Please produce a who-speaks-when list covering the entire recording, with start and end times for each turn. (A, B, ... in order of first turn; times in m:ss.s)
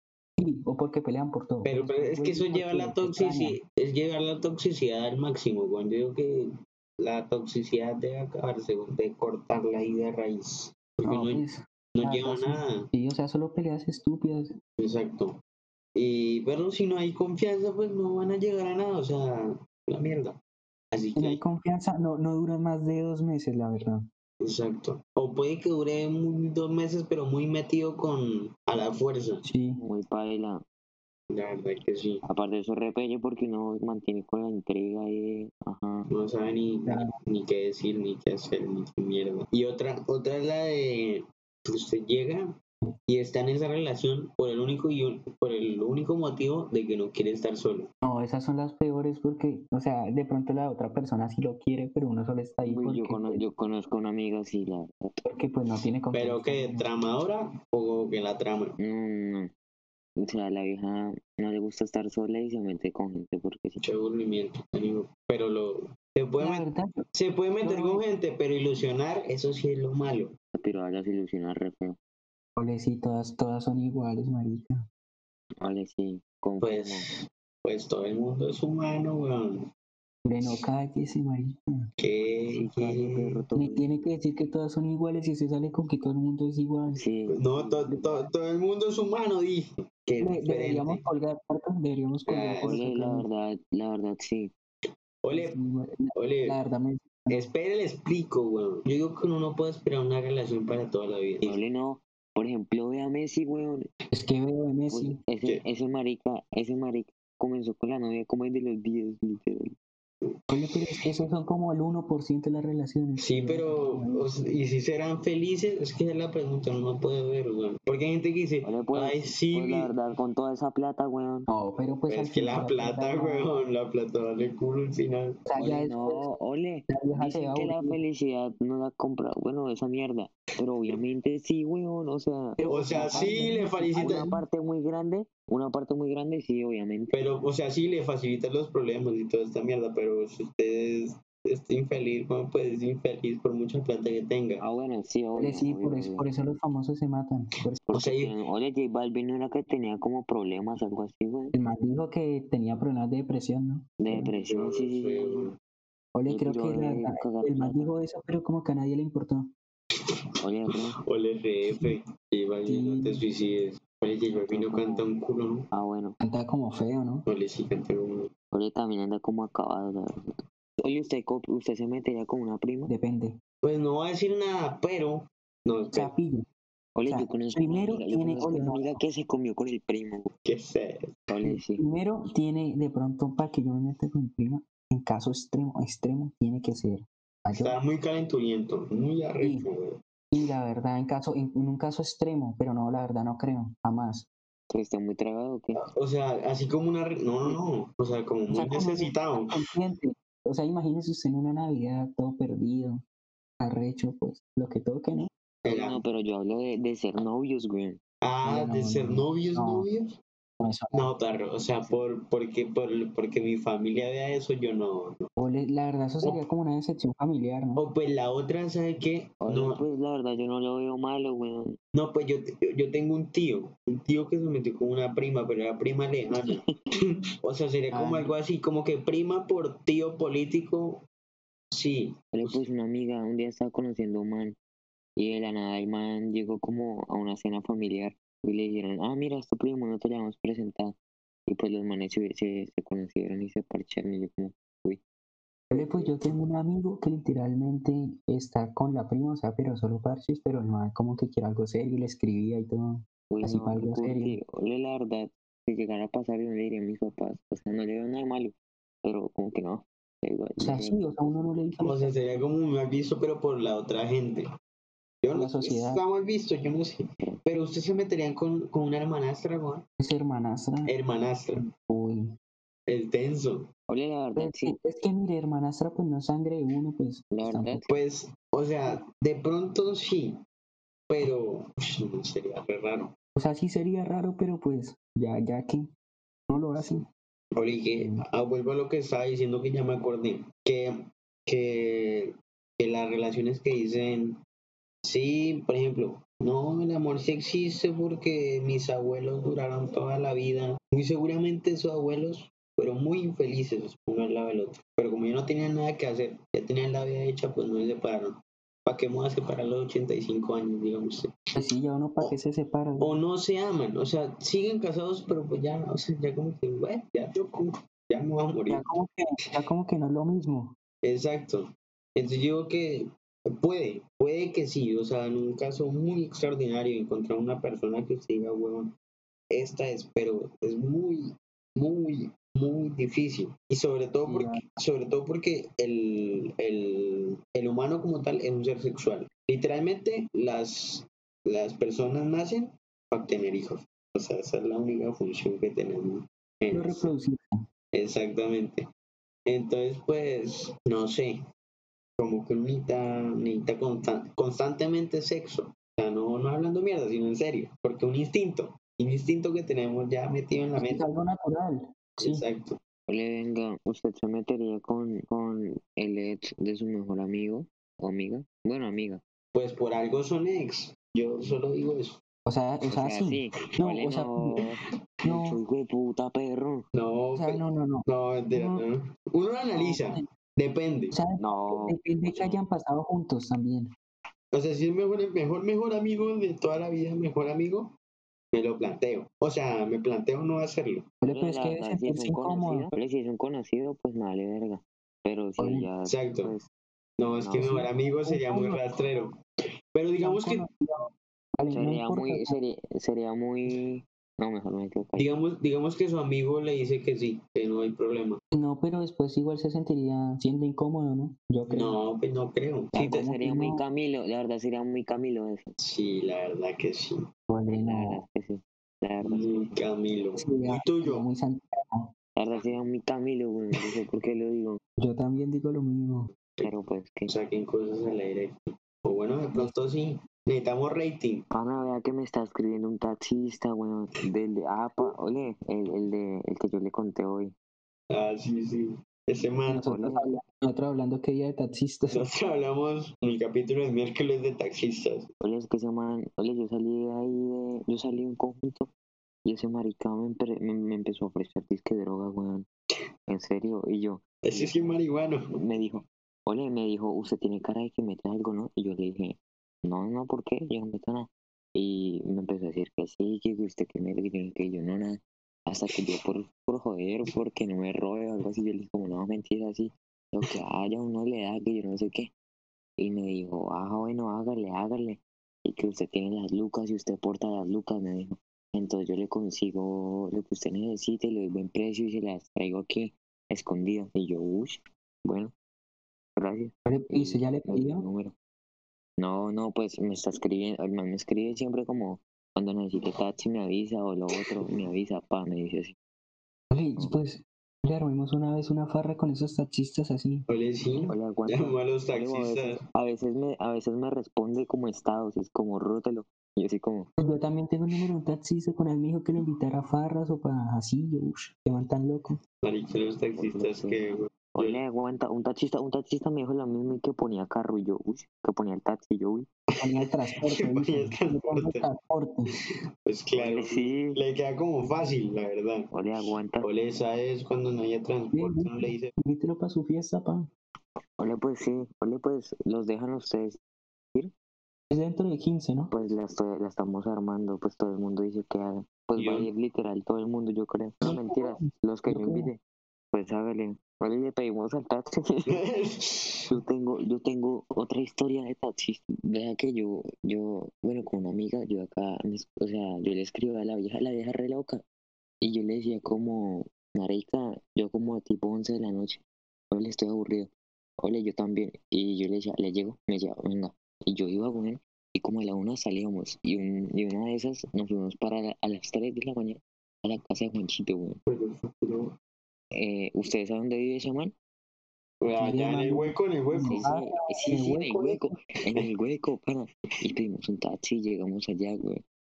0:00.4-0:03.6 A
0:01.6-0:12.9 B
0:11.0-0:14.5 A
0:14.8-0:15.4 B
0:15.9-0:20.4 B
0:20.9-0:21.4 B
0:21.2-0:24.1 A
0:24.4-0:29.4 B
0:29.4-0:29.8 A
0:29.8-0:30.6 C
0:31.3-0:32.2 B
0:32.2-0:36.1 C
0:36.1-0:47.9 B
0:36.8-0:37.1 A
0:48.0-0:53.4 A
0:52.6-0:55.2 C
0:55.2-0:56.9 A
0:56.1-0:58.8 B
0:58.8-0:59.5 C
1:00.2-1:03.8 C
1:03.8-1:10.3 B
1:06.4-1:07.0 A
1:07.6-1:08.0 A
1:10.5-1:12.0 C
1:12.6-1:14.8 A
1:15.6-1:17.1 C
1:16.6-1:19.6 B
1:20.2-1:21.9 A
1:22.0-1:23.4 B
1:22.4-1:23.9 C
1:23.6-1:27.0 A
1:26.9-1:27.4 C
1:27.3-1:31.0 B
1:27.8-1:28.3 A
1:30.2-1:33.2 A
1:32.3-1:32.8 B
1:32.6-1:34.5 C
1:35.2-1:35.6 B
1:35.3-1:37.5 A
1:36.1-1:36.6 B
1:37.3-1:41.6 B
1:41.4-1:43.9 C
1:44.1-1:45.2 A
1:44.9-1:49.7 C
1:50.5-1:54.6 A
1:53.2-1:59.9 B
1:58.6-2:01.5 C
2:01.5-2:03.5 A
2:02.1-2:05.4 B
2:05.4-2:06.3 A
2:05.6-2:13.4 C
2:06.9-2:08.0 A
2:12.6-2:14.4 A
2:12.7-2:14.3 B
2:14.0-2:17.5 C
2:17.1-2:24.6 B
2:24.6-2:26.3 C
2:25.4-2:27.8 A
2:27.9-2:31.5 C
2:27.9-2:28.3 B
2:31.5-2:34.3 A
2:34.0-2:35.5 C
2:34.4-2:35.5 B
2:36.1-2:39.5 A
2:36.3-2:37.9 C
2:40.4-2:41.0 C
2:41.0-2:45.7 B
2:41.7-2:41.9 A
2:42.6-2:43.2 A
2:44.3-2:45.0 C
2:45.7-2:46.2 C
2:46.2-2:47.2 A
2:47.3-2:48.3 B
2:48.5-2:50.2 C
2:50.8-2:52.9 C
2:52.9-2:53.4 A
2:53.6-2:56.1 B
2:55.9-2:56.4 A
2:56.9-3:00.3 C
2:57.0-2:59.0 A
3:00.4-3:01.2 B
3:01.3-3:01.8 C
3:01.4-3:07.8 A
3:07.6-3:10.0 B
3:09.4-3:09.6 A
3:10.3-3:14.3 A
3:14.7-3:15.8 C
3:15.9-3:19.6 B
3:18.5-3:23.0 A
3:23.6-3:25.3 A
3:25.6-3:26.0 B
3:25.7-3:28.0 C
3:28.2-3:30.2 B
3:28.4-3:29.9 A
3:30.6-3:31.1 A
3:30.9-3:35.3 B
3:35.4-3:37.8 A
3:37.8-3:39.8 B
3:39.4-3:41.8 C
3:41.9-3:51.0 B
3:46.4-3:46.7 C
3:47.9-3:48.3 A
3:51.7-3:52.6 B
3:52.3-3:54.6 C
3:55.2-4:01.0 C
4:01.5-4:05.0 C
4:05.7-4:14.4 A
4:05.7-4:06.1 C
4:13.3-4:21.0 C
4:20.6-4:22.4 A
4:21.8-4:24.5 B
4:25.2-4:29.8 B
4:25.3-4:26.0 A
4:30.0-4:30.9 A
4:30.8-4:31.7 B
4:31.7-4:32.3 A
4:32.9-4:33.7 B
4:33.9-4:34.8 C
4:34.4-4:37.9 A
4:37.3-4:37.9 C
4:37.9-4:40.4 B
4:41.1-4:43.1 B
4:43.4-4:45.9 A
4:46.5-4:47.0 A
4:47.5-4:54.4 B
4:48.0-4:48.2 A
4:55.0-5:11.6 B
5:11.5-5:13.2 A
5:13.0-5:18.8 B
5:18.7-5:20.7 A
5:21.0-5:28.9 B
5:29.5-5:47.1 B
5:34.2-5:34.6 A
5:46.7-5:47.6 A
5:47.9-5:48.9 B
5:49.4-5:51.4 B
5:52.2-6:01.0 B
6:00.8-6:02.4 A
6:02.2-6:02.8 B
6:03.1-6:09.2 C
6:09.5-6:12.2 B
6:12.4-6:14.6 A
6:12.8-6:16.8 C
6:15.2-6:15.6 A
6:16.9-6:21.2 B
6:17.3-6:18.8 A
6:19.7-6:20.3 A
6:21.1-6:23.9 A
6:21.4-6:22.6 C
6:24.5-6:27.9 B
6:28.5-6:31.1 B
6:31.2-6:32.9 A
6:31.3-6:36.7 C
6:35.6-6:35.9 A
6:36.0-6:36.5 B
6:37.2-6:39.4 B
6:37.4-6:37.8 C
6:37.6-6:39.3 A
6:39.9-6:40.6 B
6:40.2-6:42.6 A
6:41.7-6:45.3 C
6:45.2-6:48.4 B
6:48.5-6:52.0 A
6:51.7-6:52.9 B
6:52.9-6:55.7 C
6:52.9-6:53.8 A
6:55.8-6:57.2 B
6:57.5-6:58.2 A
6:57.8-6:59.8 C
6:59.2-7:01.3 B
7:00.4-7:02.1 A
7:02.3-7:04.8 C
7:05.0-7:06.3 A
7:06.6-7:07.3 C
7:07.3-7:11.4 B
7:11.5-7:17.5 C
7:18.1-7:19.9 B
7:19.7-7:22.2 A
7:19.8-7:20.3 C
7:22.1-7:25.3 B
7:25.4-7:28.9 C
7:29.4-7:32.7 C
7:33.3-7:35.0 C
7:34.4-7:35.5 B
7:35.5-7:52.3 C
7:53.0-8:05.5 C
8:06.4-8:08.3 C
8:06.8-8:08.0 A
8:09.2-8:15.9 C
8:16.7-8:20.4 A
8:20.5-8:22.8 B
8:21.0-8:27.1 C
8:27.2-8:32.4 A
8:32.6-8:34.8 B
8:33.3-8:39.5 C
8:39.8-8:42.5 A
8:40.5-8:41.8 B
8:43.0-8:45.9 B
8:43.3-8:44.2 C
8:45.9-8:46.7 C
8:46.6-8:49.1 B
8:48.3-8:50.5 A
8:51.2-8:53.6 C
8:54.9-8:55.9 A
8:55.9-9:02.6 C
8:59.2-8:59.5 B
9:01.0-9:02.5 A
9:03.1-9:05.5 C
9:05.5-9:06.5 B
9:06.5-9:14.8 C
9:15.4-9:31.2 C
9:31.3-9:32.1 B
9:32.7-9:34.3 C
9:35.2-9:36.8 B
9:35.4-9:38.1 A
9:36.6-9:42.0 C
9:37.4-9:38.2 B